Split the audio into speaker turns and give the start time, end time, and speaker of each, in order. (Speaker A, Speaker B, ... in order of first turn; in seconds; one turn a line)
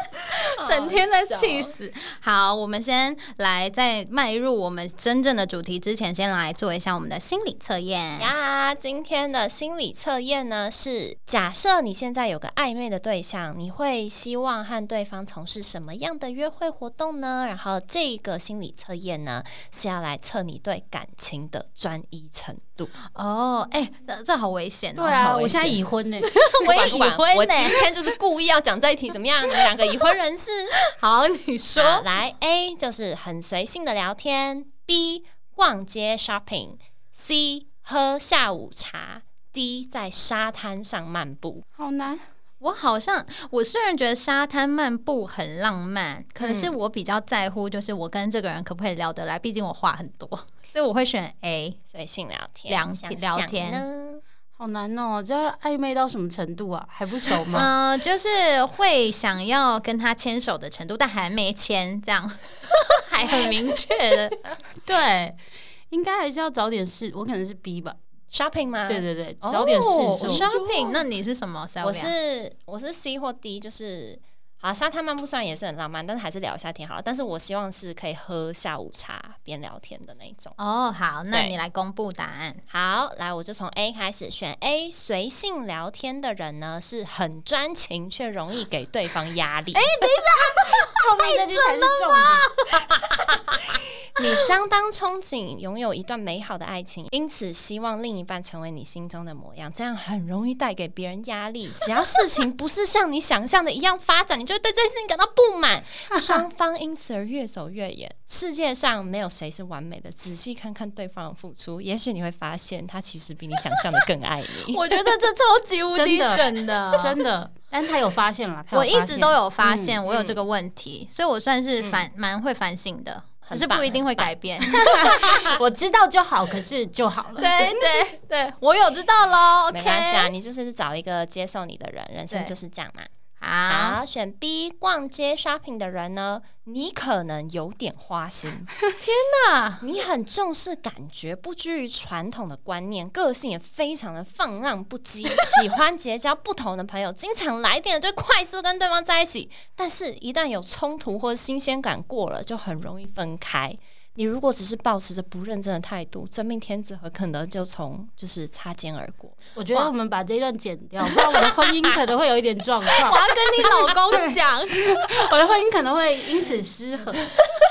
Speaker A: 0.3-1.7
Speaker B: 0.3-8.3
Speaker A: 8.2-22.9
Speaker B: 23.1-28.0
Speaker C: 25.0-26.3
Speaker A: 25.2-25.8
Speaker A: 26.5-30.8
Speaker B: 30.9-32.1
Speaker A: 31.8-41.6
Speaker C: 41.8-42.3
Speaker B: 42.6-51.8
Speaker A: 46.4-46.7
Speaker A: 51.9-54.2
Speaker B: 52.7-53.9
Speaker C: 54.6-57.7
Speaker B: 57.5-64.4
Speaker C: 64.8-65.4
Speaker C: 65.9-68.0
Speaker A: 68.3-71.0
Speaker C: 68.9-70.5
Speaker B: 70.0-72.1
Speaker A: 71.8-80.6
Speaker B: 80.6-82.6
Speaker A: 82.7-89.9
Speaker B: 89.7-93.6
Speaker C: 91.0-92.5
Speaker A: 94.2-115.1
Speaker B: 114.7-117.2
Speaker C: 115.9-120.0
Speaker B: 118.7-125.4
Speaker A: 120.1-120.4
Speaker A: 123.5-124.3
Speaker C: 124.7-127.8
Speaker B: 127.4-130.3
Speaker A: 129.7-133.1
Speaker B: 133.4-134.0
Speaker A: 133.7-138.8
Speaker B: 139.0-139.8
Speaker A: 139.8-159.4
Speaker C: 159.6-163.2
Speaker B: 163.0-164.8
Speaker C: 164.1-167.3